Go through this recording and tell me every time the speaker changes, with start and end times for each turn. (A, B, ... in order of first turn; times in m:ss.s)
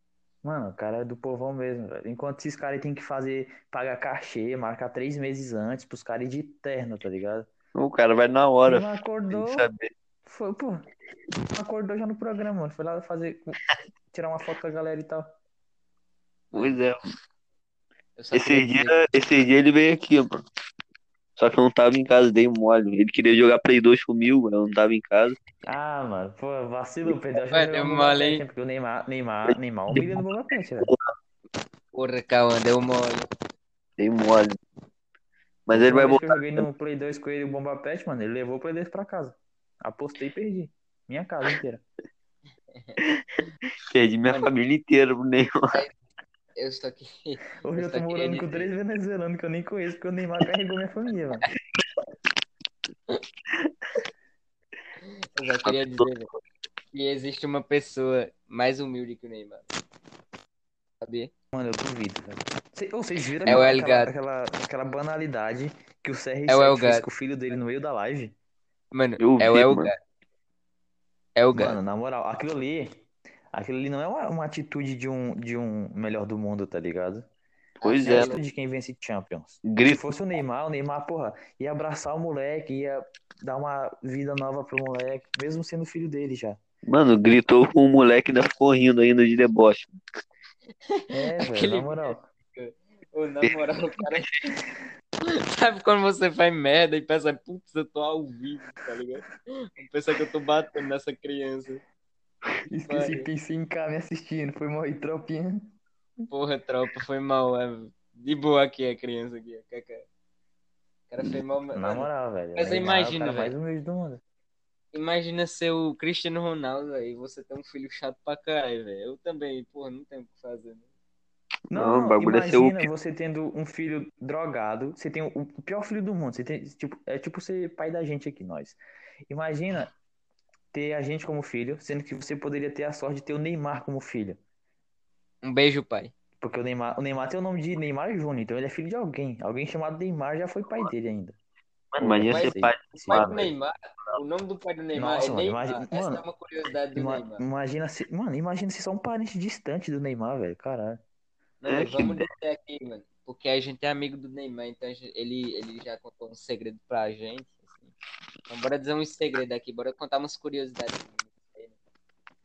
0:00.4-0:07.5 A
0:07.7-0:09.9 B
0:08.6-0:09.7 A
0:10.2-0:10.8 A
0:11.5-0:13.6 A
0:14.1-0:15.3 A
0:16.5-0:16.8 C
0:16.5-0:17.1 B
0:18.2-0:19.0 C
0:18.3-0:20.4 B
0:21.4-0:25.4 B
0:25.6-0:30.9 A
0:27.4-0:28.4 C
0:29.9-0:30.2 B
0:30.8-0:31.1 B
0:31.9-0:33.3 C
0:34.0-0:34.6 B
0:35.7-0:36.6 B
0:35.7-0:41.8 A
0:43.9-0:45.8 B
0:46.6-0:48.7 C
0:47.6-0:51.4 A
0:55.1-0:56.3 C
0:55.6-0:56.1 B
0:56.9-0:59.7 C
1:01.0-1:01.3 C
1:01.5-1:08.3 A
1:03.4-1:04.1 C
1:06.5-1:07.1 C
1:08.9-1:10.0 C
1:09.2-1:09.9 B
1:11.4-1:11.8 C
1:11.5-1:12.9 A
1:13.5-1:17.3 A
1:17.8-1:18.4 C
1:17.8-1:18.3 B
1:18.0-1:26.6 A
1:19.6-1:20.1 B
1:26.8-1:30.0 B
1:30.8-1:34.3 C
1:31.1-1:32.2 A
1:35.2-1:41.8 C
1:42.7-1:45.7 A
1:42.9-1:43.3 C
1:46.3-1:50.1 C
1:51.1-1:53.5 C
1:51.7-1:54.2 A
1:54.9-2:00.8 C
2:01.7-2:08.8 A
2:01.7-2:02.9 B
2:09.3-2:09.9 A
2:10.7-2:14.4 A
2:15.4-2:16.1 C
2:16.4-2:21.4 A
2:21.9-2:23.5 B
2:22.0-2:23.4 A
2:22.3-2:27.4 C
2:24.9-2:26.2 A
2:27.0-2:31.0 A
2:31.6-2:37.9 C
2:31.7-2:32.2 B
2:38.5-2:41.8 C